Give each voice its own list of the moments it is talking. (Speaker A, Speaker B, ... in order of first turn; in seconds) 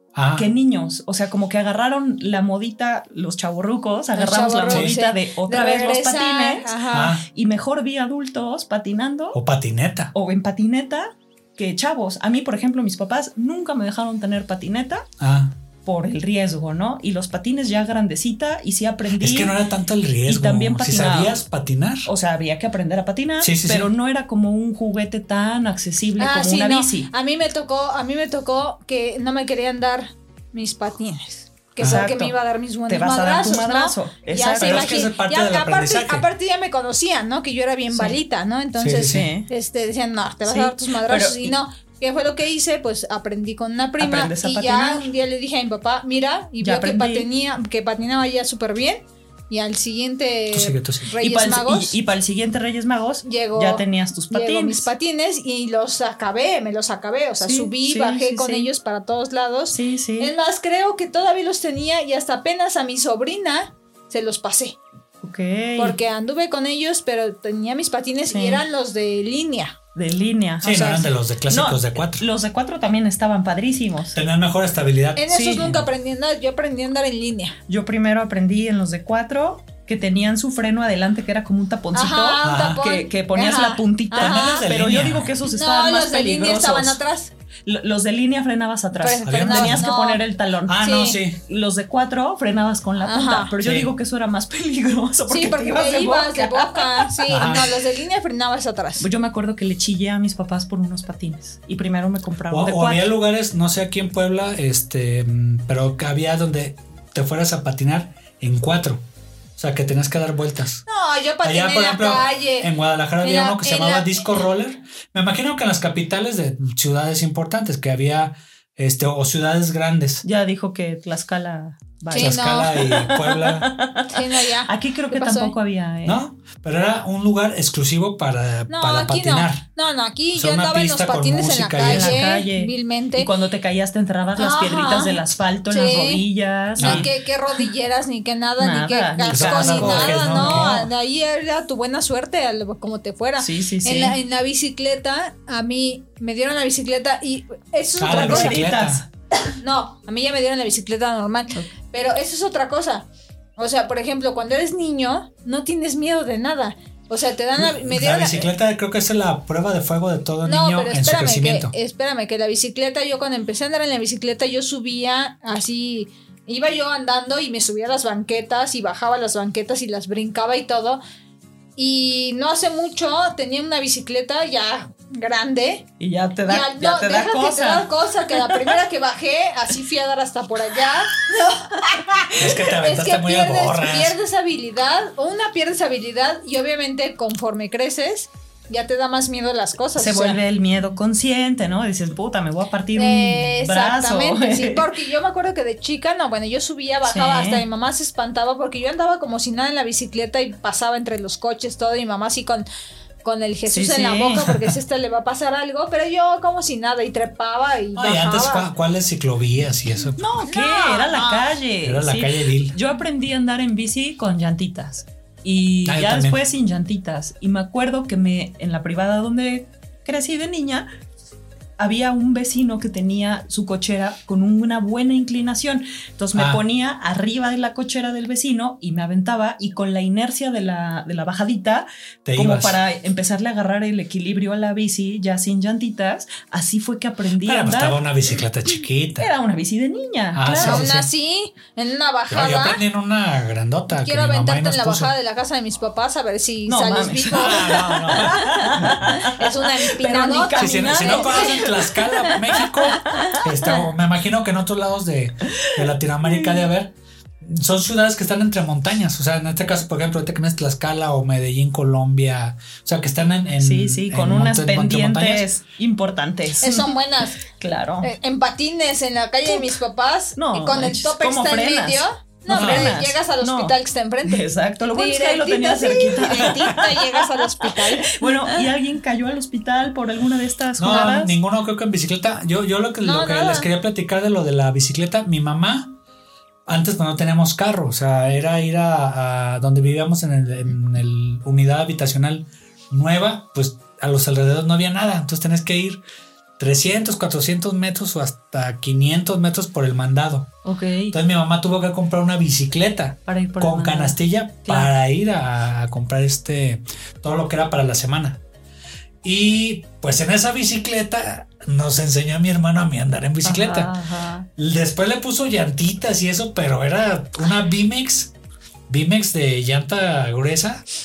Speaker A: 0.1-0.5, 6.9-7.2, 9.3-10.1, 15.2-15.6, 19.2-22.1, 23.4-23.9, 31.8-32.0, 34.6-36.3, 38.8-39.3, 50.5-51.1, 70.6-72.2, 74.2-75.8, 82.4-82.9, 84.2-85.3, 89.2-89.9, 90.7-91.4, 93.6-93.9, 97.3-97.7, 102.5-109.0, 109.6-110.9, 111.4-120.2, 122.2-123.7, 126.0-129.7, 130.3-132.2, 136.8-137.1, 139.3-140.9, 148.0-149.0, 157.6-161.7, 182.3-184.2, 208.0-210.3, 211.8-212.8, 215.8-216.4, 226.3-226.6, 232.2-232.8, 237.4-239.3, 240.3-241.1, 242.3-245.1, 247.3-248.9, 250.6-265.5, 272.5-273.0, 280.8-285.9, 286.7-296.0, 296.6-300.5, 301.1-308.4, 309.2-314.0, 314.6-318.3, 318.9-320.8
Speaker B: 0.3-6.7, 7.3-9.4, 10.1-15.1, 15.8-19.6, 20.2-21.4, 22.1-27.1, 31.8-32.4, 32.9-35.0, 37.9-38.2, 39.0-39.5, 40.5-41.6, 44.0-45.1, 46.6-47.3, 51.2-54.9, 57.4-58.7, 59.7-60.4, 65.2-66.0, 68.3-68.6, 70.0-74.2, 75.3-75.7, 77.7-87.0, 87.7-97.7, 99.0-103.1, 120.2-126.2, 131.8-137.6, 138.6-140.9, 143.4-144.2, 148.1-149.1, 176.0-178.7, 190.0-194.9, 197.1-197.7, 203.7-204.5, 210.2-220.9, 221.8-238.0, 239.2-240.9, 246.7-253.8, 255.5-256.6, 263.6-268.1, 269.5-269.8, 270.4-281.4, 300.6-301.2, 303.3-304.9, 313.4-314.5
Speaker C: 4.1-7.2, 26.2-52.0, 53.2-64.8, 65.8-69.8, 70.6-71.1, 75.2-77.6, 81.9-84.7, 85.5-87.3, 89.0-90.2, 90.8-91.2, 93.0-93.5, 95.3-99.1, 110.9-114.4, 122.1-122.8, 124.1-125.6, 128.7-133.3, 134.4-148.7, 149.5-153.1, 153.6-158.5, 160.4-171.0, 171.8-175.9, 176.5-190.4, 192.9-202.7, 203.2-208.7, 210.4-211.5, 240.6-242.8, 244.0-251.7, 266.6-267.4, 268.0-278.6, 283.0-283.7